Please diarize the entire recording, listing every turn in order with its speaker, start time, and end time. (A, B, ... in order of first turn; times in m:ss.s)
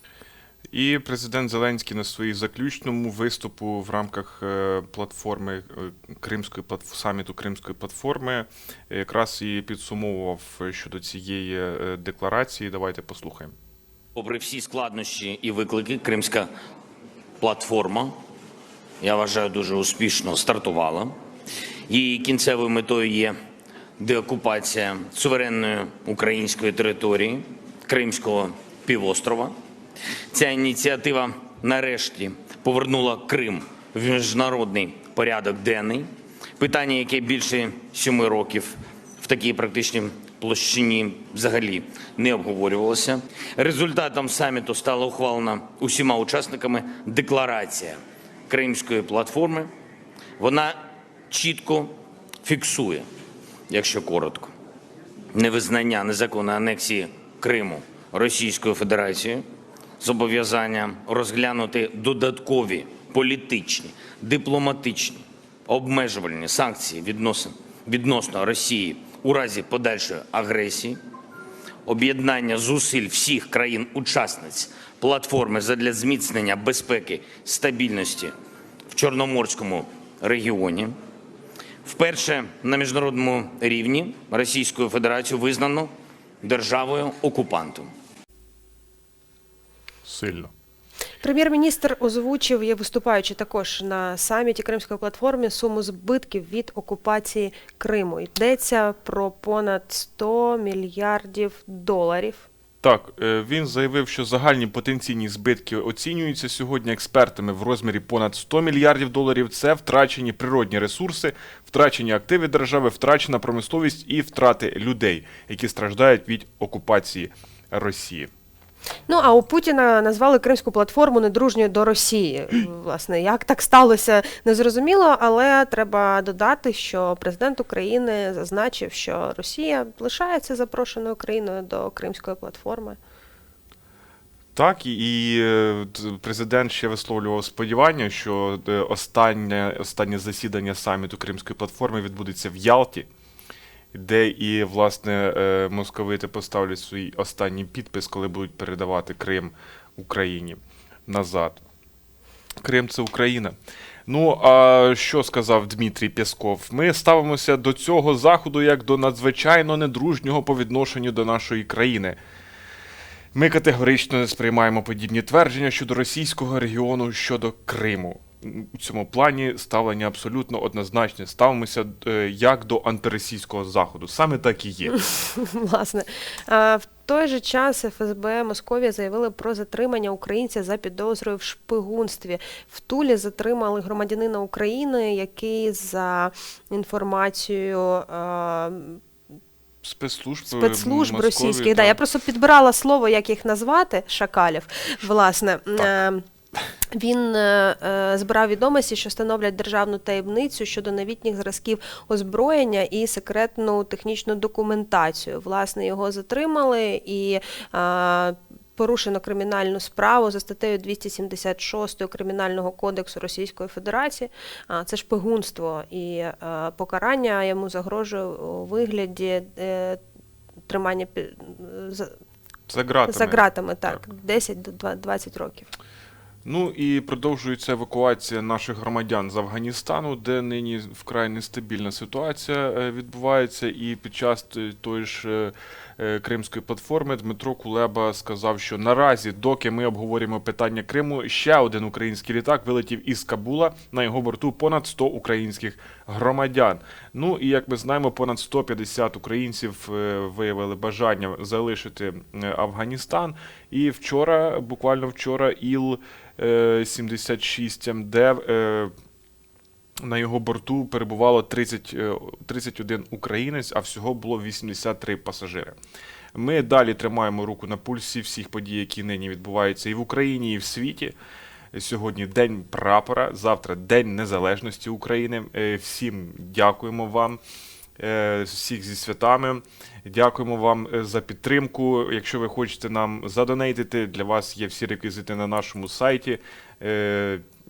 0:00.7-0:13.5 A
0:14.2-0:16.5 B
0:17.4-0:18.2 B
0:19.0-0:21.1 B
0:21.9-0:23.3 B
0:24.0-0:29.5 B
0:30.3-0:48.0 B
0:48.5-0:49.7 B
0:50.4-0:50.8 B
0:51.3-0:53.1 B
0:53.7-0:54.5 B
0:55.3-0:59.4 B
1:00.0-1:11.0 B
1:11.8-1:18.3 B
1:18.9-1:20.9 B
1:21.8-1:25.9 B
1:26.4-1:27.9 B
1:30.0-1:30.5 A
1:31.2-1:42.5 C
1:42.8-1:58.3 A
1:59.1-2:13.0 C
2:14.5-2:23.1 A
2:23.9-2:31.6 A
2:32.6-2:33.6 A
2:34.1-2:42.2 A
2:43.3-2:55.0 A
2:55.0-3:09.0 C
3:09.8-3:12.0 A
3:10.5-3:16.2 C
3:16.9-3:40.0 C
3:40.7-3:42.2 C
3:42.7-3:44.0 A
3:43.0-3:45.7 C
3:46.4-4:18.9 A
4:20.0-4:25.8 A
4:26.3-4:31.1 A
4:31.7-4:37.4 A
4:38.0-4:47.4 A